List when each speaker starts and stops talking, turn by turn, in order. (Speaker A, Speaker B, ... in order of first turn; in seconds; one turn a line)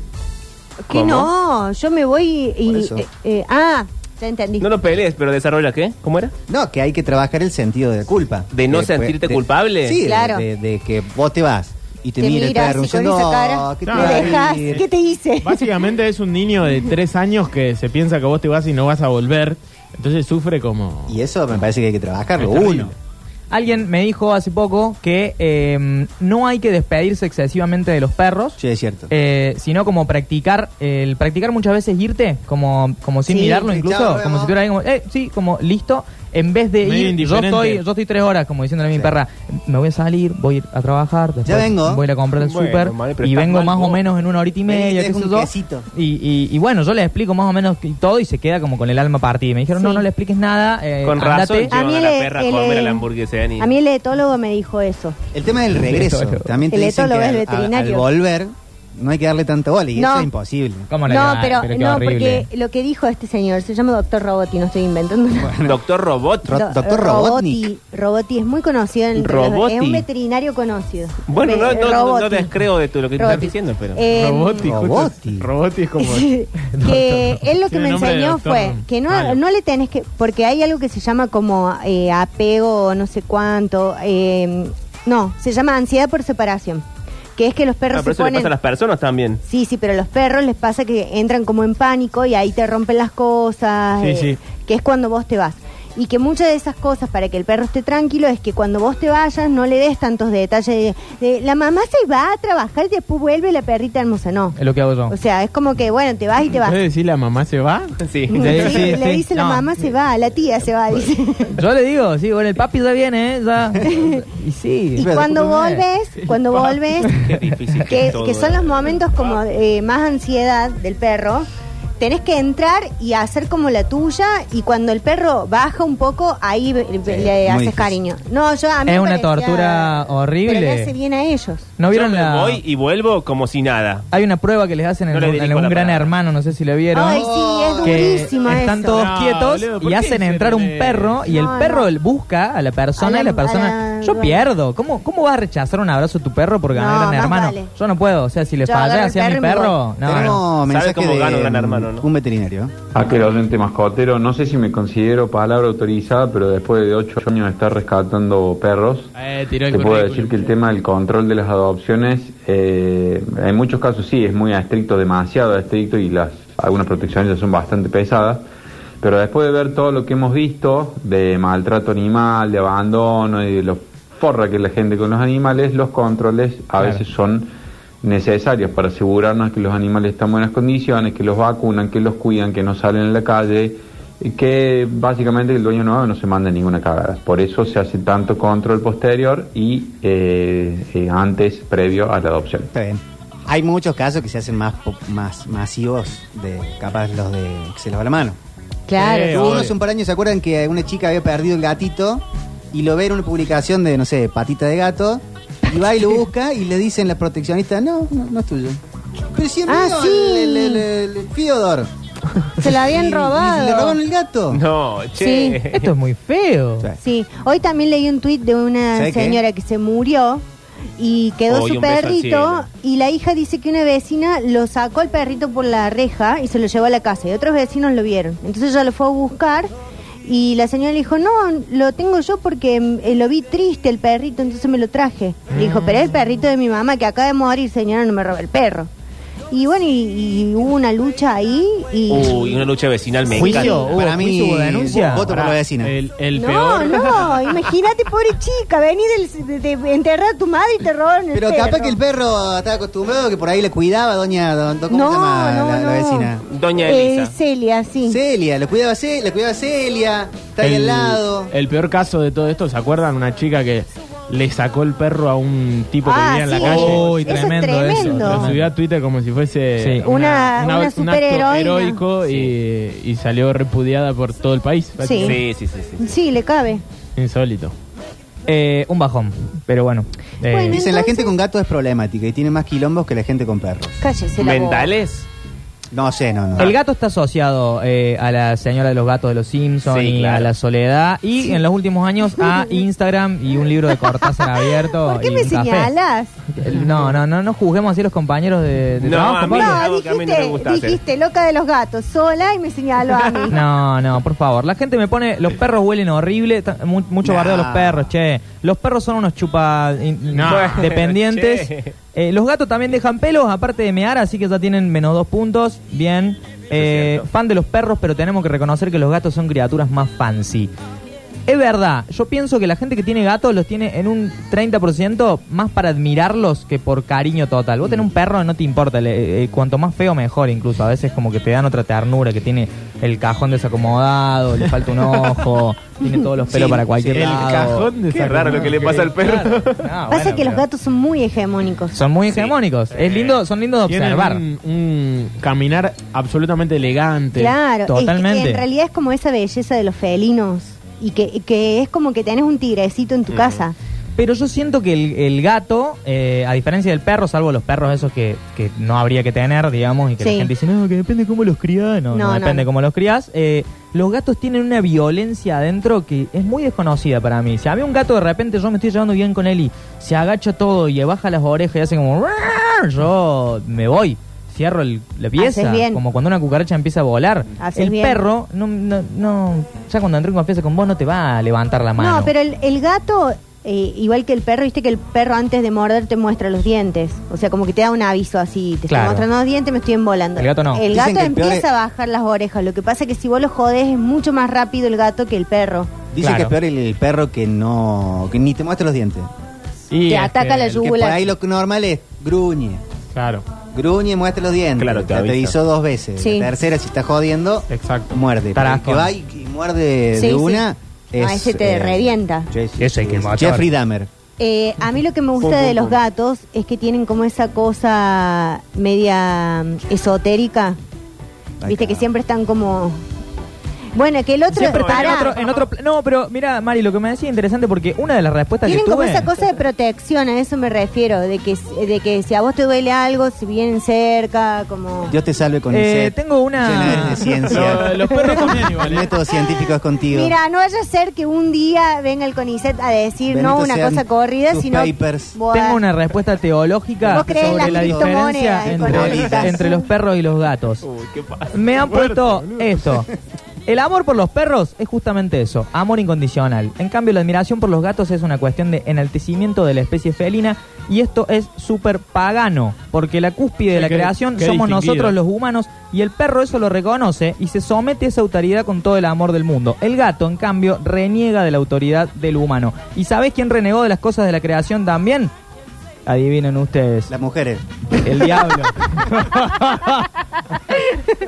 Speaker A: 0.9-4.7
Speaker B: 0.9-1.3
Speaker C: 2.7-3.0
Speaker B: 4.6-6.3
Speaker C: 6.5-14.8
Speaker B: 8.5-10.0
Speaker A: 10.0-10.4
Speaker A: 12.2-15.8
Speaker D: 13.8-14.8
Speaker D: 15.4-21.2
Speaker C: 21.1-22.9
Speaker D: 22.4-22.9
Speaker E: 23.5-28.6
Speaker C: 28.6-29.1
Speaker E: 29.1-51.7
Speaker C: 33.3-34.5
Speaker D: 36.8-37.8
Speaker C: 41.4-42.0
Speaker B: 42.4-44.0
Speaker C: 44.7-45.9
Speaker A: 49.8-50.0
Speaker B: 51.0-53.7
Speaker A: 51.7-53.0
Speaker A: 53.6-55.1
Speaker C: 55.3-60.9
Speaker A: 56.7-58.1
Speaker A: 60.0-60.3
Speaker E: 60.9-62.5
Speaker A: 61.0-65.6
Speaker C: 65.4-65.8
Speaker B: 65.6-66.6
Speaker C: 66.4-67.7
Speaker A: 66.5-72.5
Speaker B: 69.1-70.0
Speaker B: 71.3-74.0
Speaker A: 73.2-74.8
Speaker D: 74.1-76.3
Speaker C: 74.6-75.5
Speaker A: 76.0-88.5
Speaker D: 76.9-79.4
Speaker B: 87.9-89.4
Speaker A: 89.4-104.6
Speaker D: 94.0-94.4
Speaker E: 104.5-105.1
Speaker A: 105.1-106.8
Speaker D: 106.5-108.8
Speaker B: 108.0-109.0
Speaker A: 108.3-111.6
Speaker E: 108.4-109.7
Speaker E: 111.5-115.8
Speaker A: 113.8-114.2
Speaker A: 115.0-117.3
Speaker C: 115.0-115.6
Speaker B: 117.0-119.3
Speaker A: 117.9-121.5
Speaker A: 122.0-131.7
Speaker C: 127.0-127.9
Speaker E: 128.8-130.9
Speaker E: 131.8-132.6
Speaker B: 131.9-134.1
Speaker E: 134.1-137.3
Speaker B: 135.1-136.1
Speaker A: 136.9-139.1
Speaker C: 137.0-138.4
Speaker E: 137.8-150.4
Speaker D: 138.9-141.3
Speaker A: 141.2-141.9
Speaker A: 143.0-144.4
Speaker A: 146.7-147.7
Speaker A: 148.6-149.8
Speaker C: 150.0-152.8
Speaker B: 150.7-152.1
Speaker F: 152.9-159.1
Speaker D: 159.1-160.6
Speaker F: 159.7-168.4
Speaker F: 169.0-177.5
Speaker F: 178.0-192.7
Speaker C: 192.7-198.4
Speaker A: 198.9-199.7
Speaker D: 199.0-199.7
Speaker C: 199.0-208.8
Speaker C: 209.3-211.9
Speaker A: 209.7-210.8
Speaker A: 212.6-214.0
Speaker C: 212.6-214.6
Speaker B: 214.5-215.9
Speaker A: 215.2-215.6
Speaker E: 215.7-216.9
Speaker A: 217.0-220.4
Speaker C: 218.9-219.4
Speaker A: 221.0-229.7
Speaker B: 221.5-222.6
Speaker A: 230.2-238.9
Speaker D: 235.5-236.1
Speaker A: 239.5-242.7
Speaker B: 242.1-243.8
Speaker A: 243.3-243.9
Speaker E: 243.3-245.3
Speaker C: 243.7-245.9
Speaker D: 245.0-247.4
Speaker A: 246.3-252.0
Speaker C: 251.3-256.4
Speaker A: 254.9-258.2
Speaker B: 256.5-257.3
Speaker C: 258.1-261.5
Speaker D: 260.6-275.4
Speaker A: 266.0-268.6
Speaker E: 266.6-268.6
Speaker E: 269.8-270.1
Speaker A: 270.0-272.0
Speaker B: 272.3-272.5
Speaker A: 275.0-275.4
Speaker B: 275.2-276.0
Speaker A: 276.0-276.8
Speaker D: 277.1-277.7
Speaker E: 278.5-280.7
Speaker A: 280.4-281.3
Speaker C: 280.7-284.0
Speaker A: 284.0-284.9
Speaker B: 284.4-285.2
Speaker C: 285.9-286.7
Speaker E: 286.6-295.9
Speaker B: 289.9-290.5
Speaker A: 294.0-296.4
Speaker E: 296.5-299.8
Speaker B: 299.0-301.0
Speaker A: 299.4-303.6
Speaker E: 303.5-320.7
Speaker C: 307.2-308.1
Speaker D: 310.3-310.9
Speaker B: 310.5-311.9
Speaker B: 316.7-317.2
Speaker E: 321.5-340.6
Speaker C: 336.5-337.6
Speaker D: 337.1-339.1
Speaker B: 338.1-339.9
Speaker A: 340.1-342.0
Speaker E: 341.9-344.4
Speaker D: 342.9-347.6
Speaker A: 347.4-353.7
Speaker E: 347.9-348.6
Speaker B: 353.3-353.6
Speaker E: 354.2-382.3
Speaker A: 360.2-360.5
Speaker A: 362.1-362.6
Speaker A: 375.4-376.0
Speaker A: 377.6-378.2
Speaker A: 382.0-396.0
Speaker E: 388.9-389.3
Speaker E: 390.4-390.8
Speaker C: 390.9-391.7
Speaker C: 396.1-399.3
Speaker E: 396.2-396.5
Speaker D: 399.9-400.9
Speaker A: 400.1-401.3
Speaker C: 400.8-402.8
Speaker D: 403.1-403.4
Speaker C: 403.7-414.1
Speaker B: 404.8-405.6
Speaker A: 406.2-406.5
Speaker D: 407.7-408.2
Speaker E: 408.5-409.1
Speaker A: 410.1-410.6
Speaker A: 411.2-412.5
Speaker E: 412.8-413.7
Speaker A: 414.4-420.8
Speaker B: 415.4-416.0
Speaker C: 421.6-422.1
Speaker A: 421.6-423.0
Speaker A: 423.9-425.4
Speaker E: 424.5-429.3
Speaker B: 424.6-425.7
Speaker A: 428.6-435.1
Speaker C: 435.1-437.9
Speaker E: 435.7-437.2
Speaker D: 437.3-439.1
Speaker A: 437.6-438.7
Speaker C: 438.8-440.3
Speaker A: 440.1-445.8
Speaker C: 443.3-445.4
Speaker E: 445.5-450.8
Speaker C: 447.0-449.6
Speaker A: 447.1-449.9
Speaker B: 450.8-452.0
Speaker E: 451.5-453.1
Speaker D: 451.9-452.8
Speaker E: 453.7-475.3
Speaker D: 463.7-465.2
Speaker E: 476.1-477.1
Speaker C: 477.1-477.6
Speaker E: 478.0-480.1